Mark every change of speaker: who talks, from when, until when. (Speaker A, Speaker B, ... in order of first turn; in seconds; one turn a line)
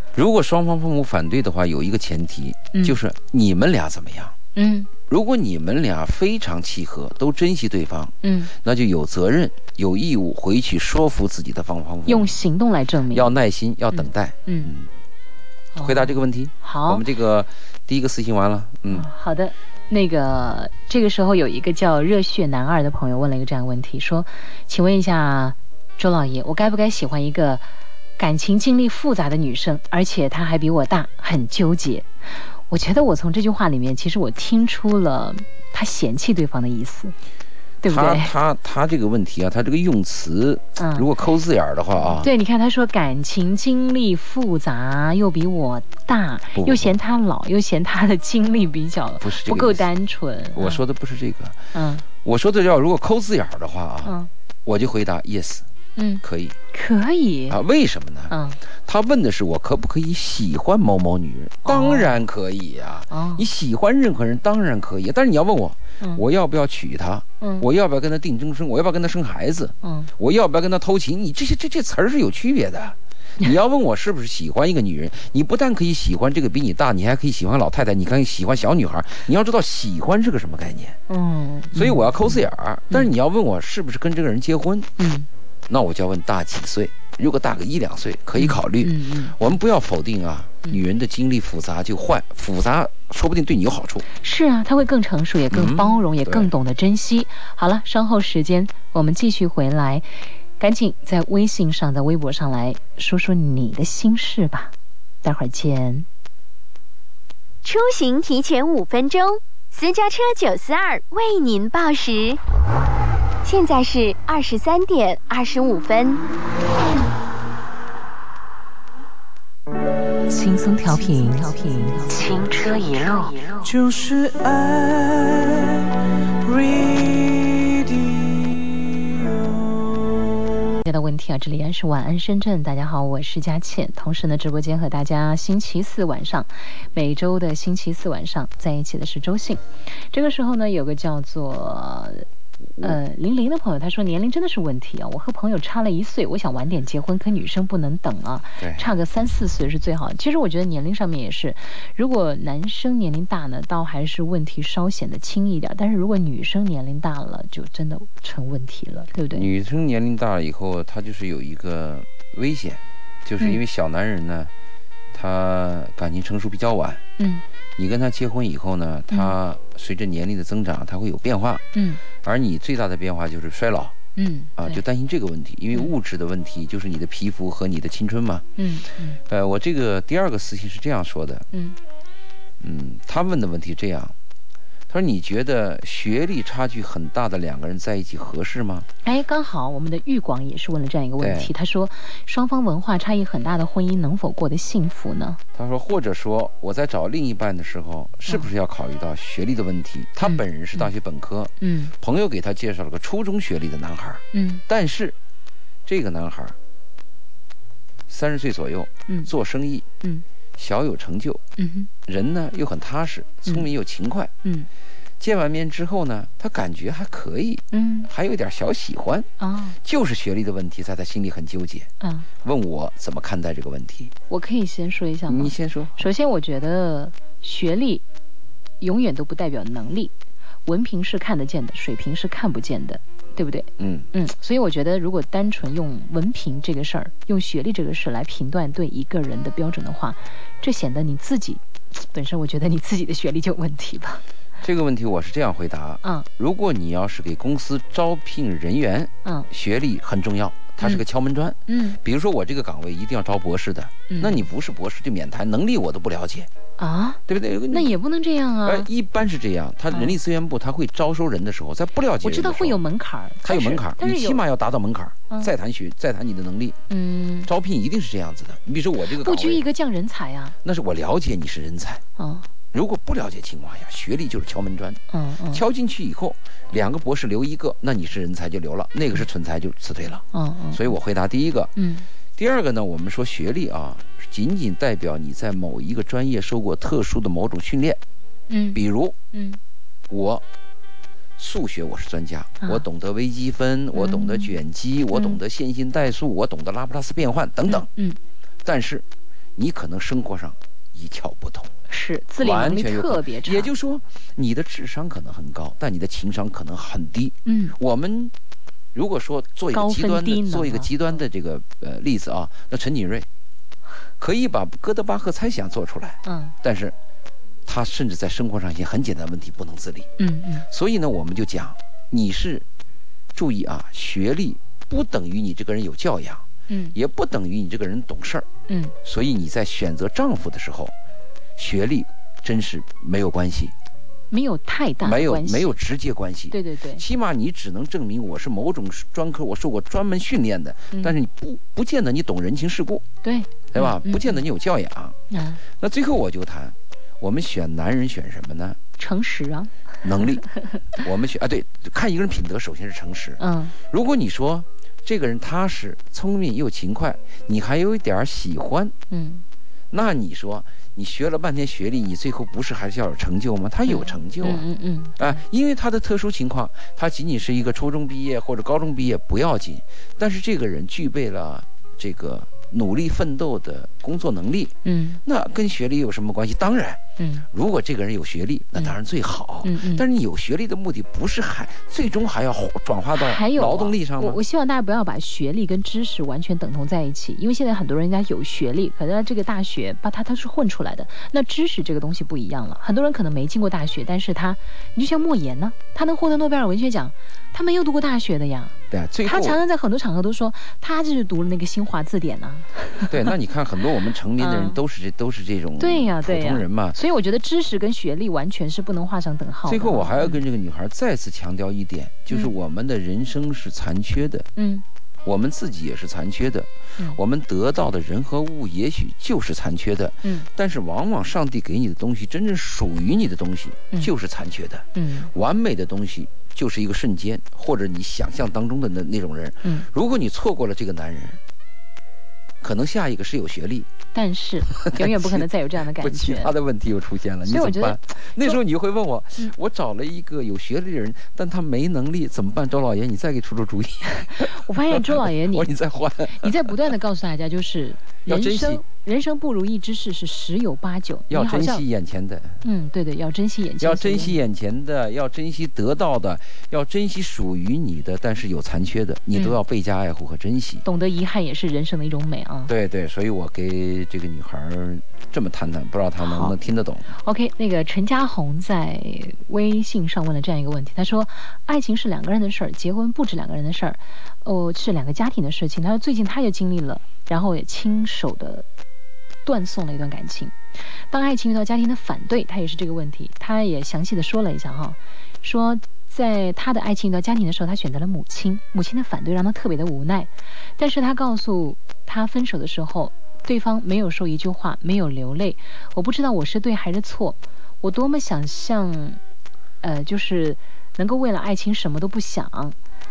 Speaker A: 0.1-4.3
Speaker B: 4.5-4.9
Speaker A: 5.1-12.3
Speaker B: 8.2-8.5
Speaker B: 12.1-13.3
Speaker A: 13.1-14.9
Speaker B: 13.9-14.7
Speaker B: 15.7-17.0
Speaker A: 15.8-19.1
Speaker B: 18.9-37.1
Speaker B: 37.8-38.3
Speaker A: 37.9-42.3
Speaker B: 40.8-41.1
Speaker B: 42.1-50.8
Speaker A: 46.5-47.0
Speaker A: 49.2-49.9
Speaker A: 50.5-55.7
Speaker B: 51.7-52.0
Speaker B: 54.0-54.3
Speaker B: 56.0-57.6
Speaker A: 56.2-56.6
Speaker A: 57.5-81.0
Speaker B: 58.3-58.6
Speaker B: 61.6-62.2
Speaker B: 63.1-63.5
Speaker B: 67.4-67.7
Speaker B: 69.8-70.1
Speaker B: 81.1-83.1
Speaker A: 81.7-84.9
Speaker B: 85.0-85.3
Speaker A: 85.7-94.0
Speaker B: 88.3-89.4
Speaker B: 94.1-106.0
Speaker A: 95.5-96.5
Speaker C: 107.6-112.4
Speaker C: 113.4-116.2
Speaker B: 120.3-123.4
Speaker D: 123.6-129.8
Speaker B: 130.8-142.2
Speaker B: 142.8-159.5
Speaker A: 148.6-148.9
Speaker A: 159.3-164.5
Speaker A: 165.1-167.0
Speaker B: 167.2-167.4
Speaker A: 167.8-173.9
Speaker B: 171.7-172.0
Speaker B: 174.2-174.8
Speaker A: 174.6-178.5
Speaker B: 178.6-179.2
Speaker A: 179.2-181.5
Speaker B: 181.5-181.8
Speaker A: 182.6-184.1
Speaker A: 184.9-188.9
Speaker B: 189.0-195.4
Speaker A: 191.2-191.5
Speaker A: 195.5-205.2
Speaker B: 200.2-200.9
Speaker B: 201.6-201.9
Speaker B: 204.3-204.6
Speaker A: 205.8-206.6
Speaker A: 208.1-209.8
Speaker A: 210.6-211.4
Speaker B: 211.6-211.9
Speaker A: 212.1-214.3
Speaker B: 214.4-214.7
Speaker A: 215.2-219.3
Speaker B: 217.7-218.1
Speaker B: 219.4-219.8
Speaker A: 219.8-221.9
Speaker B: 222.0-222.3
Speaker A: 222.4-224.1
Speaker B: 224.3-228.0
Speaker A: 225.3-226.0
Speaker B: 228.8-230.1
Speaker B: 230.7-244.2
Speaker A: 233.8-234.1
Speaker A: 244.6-256.5
Speaker B: 251.7-252.0
Speaker B: 254.1-254.4
Speaker B: 256.8-258.9
Speaker A: 257.3-257.9
Speaker A: 258.6-262.8
Speaker B: 259.9-260.1
Speaker B: 262.2-264.4
Speaker A: 263.4-266.8
Speaker B: 266.9-267.5
Speaker A: 267.4-269.6
Speaker B: 269.1-270.5
Speaker A: 270.6-272.0
Speaker B: 272.2-272.5
Speaker A: 272.7-281.7
Speaker B: 275.1-275.6
Speaker B: 280.3-280.8
Speaker B: 281.8-282.1
Speaker A: 282.4-288.0
Speaker B: 288.5-289.6
Speaker A: 288.7-289.1
Speaker A: 290.1-290.4
Speaker A: 291.4-297.9
Speaker B: 293.9-294.5
Speaker B: 295.1-295.4
Speaker B: 297.7-298.2
Speaker A: 298.6-301.7
Speaker B: 301.9-303.7
Speaker A: 302.4-308.3
Speaker B: 307.4-307.8
Speaker A: 308.9-313.3
Speaker B: 309.7-310.9
Speaker A: 314.2-316.9
Speaker B: 316.2-316.5
Speaker A: 317.6-320.1
Speaker B: 320.2-320.7
Speaker A: 320.7-322.6
Speaker A: 323.3-328.5
Speaker B: 326.7-326.9
Speaker B: 328.7-328.9
Speaker A: 329.0-330.9
Speaker A: 331.6-333.7
Speaker B: 334.3-335.7
Speaker A: 335.0-343.0
Speaker B: 336.5-337.0
Speaker B: 343.2-344.4
Speaker A: 343.7-348.8
Speaker B: 345.3-345.6
Speaker B: 349.0-350.8
Speaker A: 350.0-358.9
Speaker B: 353.4-353.7
Speaker B: 359.1-359.4
Speaker A: 359.9-364.7
Speaker B: 363.9-365.4
Speaker A: 365.2-384.4
Speaker B: 374.8-375.2
Speaker B: 377.2-377.4
Speaker B: 379.6-380.0
Speaker B: 383.1-403.3
Speaker A: 398.9-399.6
Speaker A: 403.1-407.0
Speaker B: 404.4-404.8
Speaker B: 405.8-410.4
Speaker A: 409.6-414.5
Speaker B: 412.3-412.5
Speaker B: 414.6-414.8
Speaker A: 415.2-431.4
Speaker B: 424.9-425.3
Speaker A: 432.6-433.9
Speaker B: 434.1-436.5
Speaker A: 434.7-446.9
Speaker B: 437.4-438.6
Speaker B: 444.2-445.7
Speaker B: 446.3-451.9
Speaker A: 448.2-448.8
Speaker A: 451.3-452.6
Speaker B: 452.6-454.4
Speaker A: 453.8-460.8
Speaker B: 460.8-462.7
Speaker A: 462.7-467.1
Speaker B: 466.2-466.5
Speaker B: 467.1-478.7
Speaker B: 479.4-499.2
Speaker B: 499.8-502.8